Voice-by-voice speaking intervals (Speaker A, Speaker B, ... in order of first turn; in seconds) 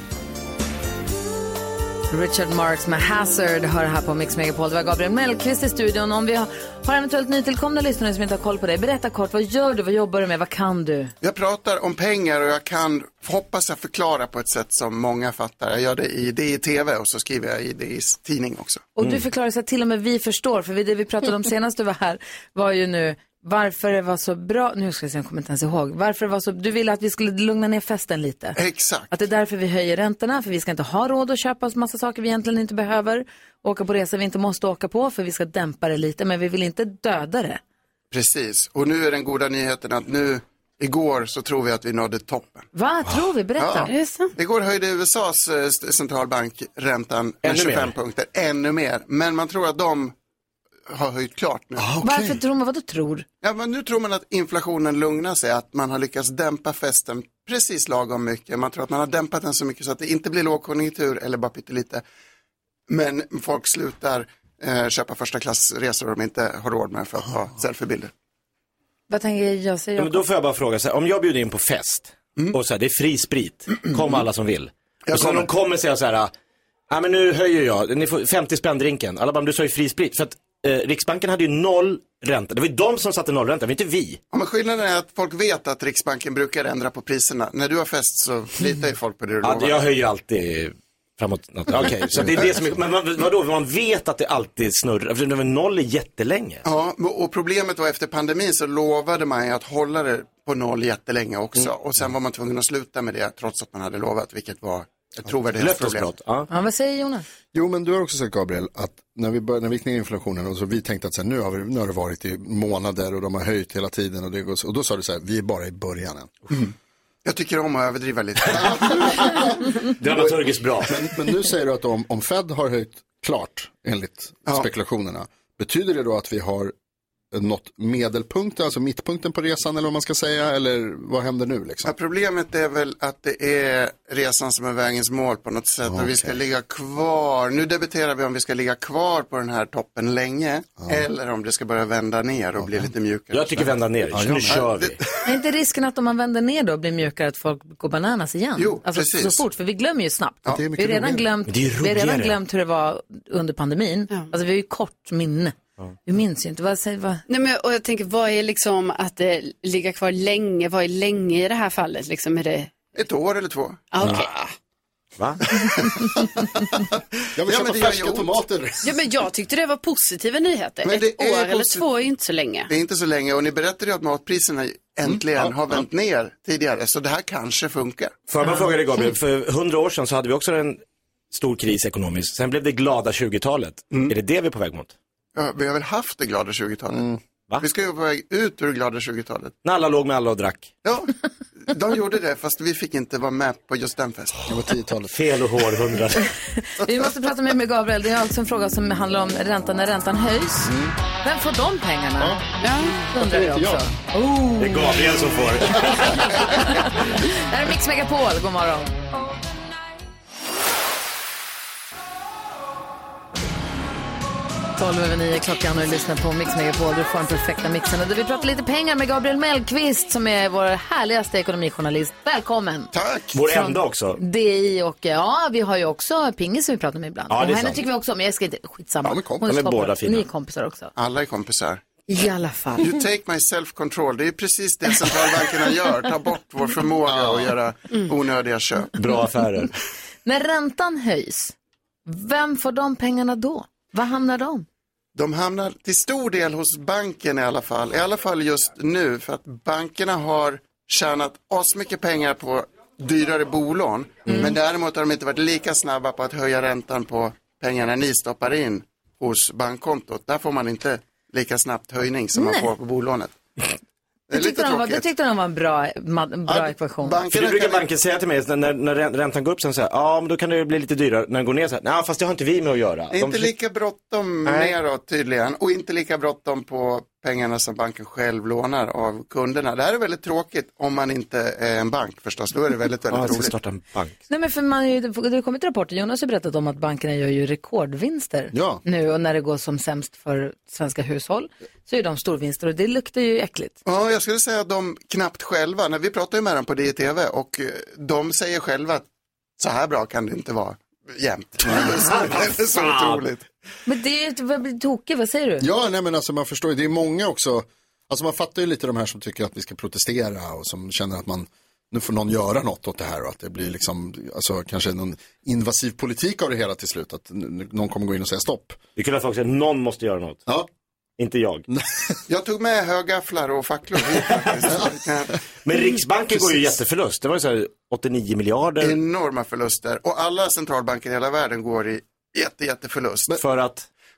Speaker A: 2.1-11.1, 18.9-28.6, 29.1-37.6, 42.7-43.9, 52.0-53.2, 69.1-70.2, 106.5-107.2, 145.2-157.2, 196.5-200.7, 201.2-202.4, 203.0-205.0, 206.2-208.9, 214.8-222.9, 224.2-230.9, 232.1-232.9, 240.2-241.5, 242.1-244.7, 254.2-254.5, 262.4-262.7, 264.3-267.2, 284.3-293.8, 303.9-305.6
Speaker B: 11.2-18.9, 28.5-29.1, 38.1-42.7, 43.6-43.8, 44.4-50.1, 50.9-51.9, 53.4-62.0, 62.9-68.1, 75.0-75.5, 84.3-89.9, 96.6-106.1, 117.2-119.4, 131.8-143.7, 144.4-145.0, 148.6-149.4, 150.4-151.2, 162.9-163.9, 167.4-168.3, 170.8-171.8, 172.7-178.1, 185.3-189.5, 190.8-191.1, 191.7-194.3, 222.9-223.7, 230.9-231.8, 232.8-238.9, 245.1-263.4, 264.3-265.1, 266.5-267.9, 273.1-283.5, 293.8-299.0, 299.6-303.4, 322.3-325.4, 328.8-333.4
Speaker C: 43.9-44.3, 157.3-162.7, 163.9-164.3, 168.8-172.7, 202.6-203.6
Speaker D: 47.4-47.9, 70.0-76.3, 76.9-84.2, 89.4-96.6, 105.6-106.5, 120.0-120.9, 143.3-145.0, 151.5-152.4, 178.3-184.9, 189.6-190.7, 195.1-196.3, 204.6-206.4, 223.3-224.2, 227.3-227.8, 229.4-230.2, 238.9-239.7, 267.3-273.5, 274.4-274.7, 283.1-284.1, 301.7-303.2, 318.9-320.5, 321.2-321.7, 325.6-328.9, 333.3-333.9
Speaker E: 51.8-52.4, 107.5-116.3, 118.6-119.5, 120.0-126.7, 127.3-131.9, 135.8-136.4, 140.8-141.0, 142.6-142.9, 144.1-144.7, 150.5-151.2, 167.3-168.9, 175.1-175.8, 194.4-195.3, 200.6-200.9, 203.2-203.8, 229.0-229.5, 237.1-237.5, 288.5-288.8, 305.6-318.8, 321.7-321.9